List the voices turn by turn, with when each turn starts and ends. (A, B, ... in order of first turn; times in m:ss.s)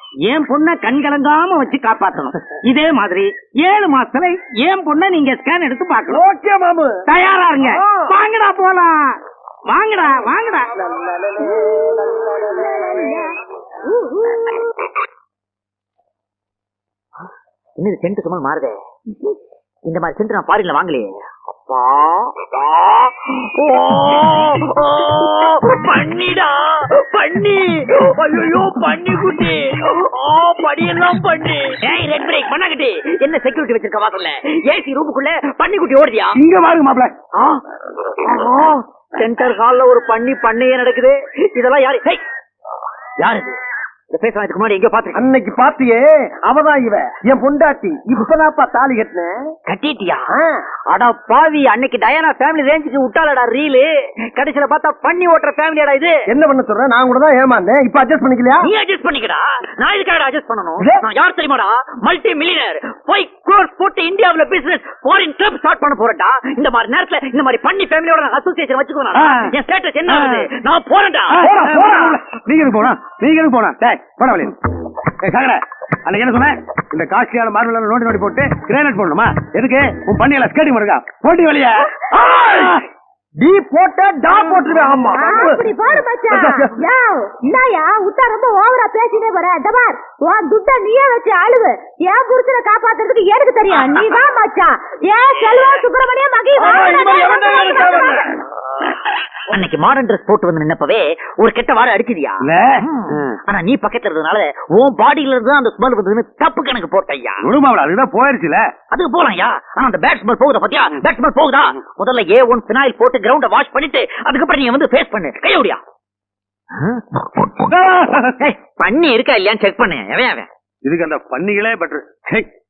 0:00.3-0:06.2 A
0:06.1-0:07.0 B
0:07.1-0:09.1 A
0:07.6-0:08.2 B
0:09.7-0:10.7 A
0:10.8-0:12.9 B
0:12.5-0:13.3 C
0:13.9-0:14.4 C
0:17.8-0:18.8 D
0:19.9-0:36.4 D
0:36.4-0:37.1 B
0:37.3-0:37.6 D
0:38.2-0:42.2 D
0:43.2-0:43.6 D
0:44.1-0:45.2 D
0:45.2-0:49.3 B
0:49.7-0:50.3 D
0:50.3-0:50.6 B
0:50.9-0:56.3 D
0:56.3-0:58.7 B
0:58.6-1:11.7 D
1:09.2-1:09.5 E
1:10.1-1:10.5 E
1:11.3-1:14.5 E
1:15.2-1:21.9 E
1:22.1-1:22.7 B
1:22.5-1:22.8 E
1:23.4-1:25.6 B
1:25.1-1:38.3 C
1:26.3-1:26.8 B
1:36.6-1:38.2 E
1:39.5-1:47.5 D
1:42.4-1:43.4 E
1:47.4-1:48.7 E
1:48.9-1:55.8 D
1:57.6-1:58.4 E
1:58.4-2:00.5 D
2:00.8-2:02.5 E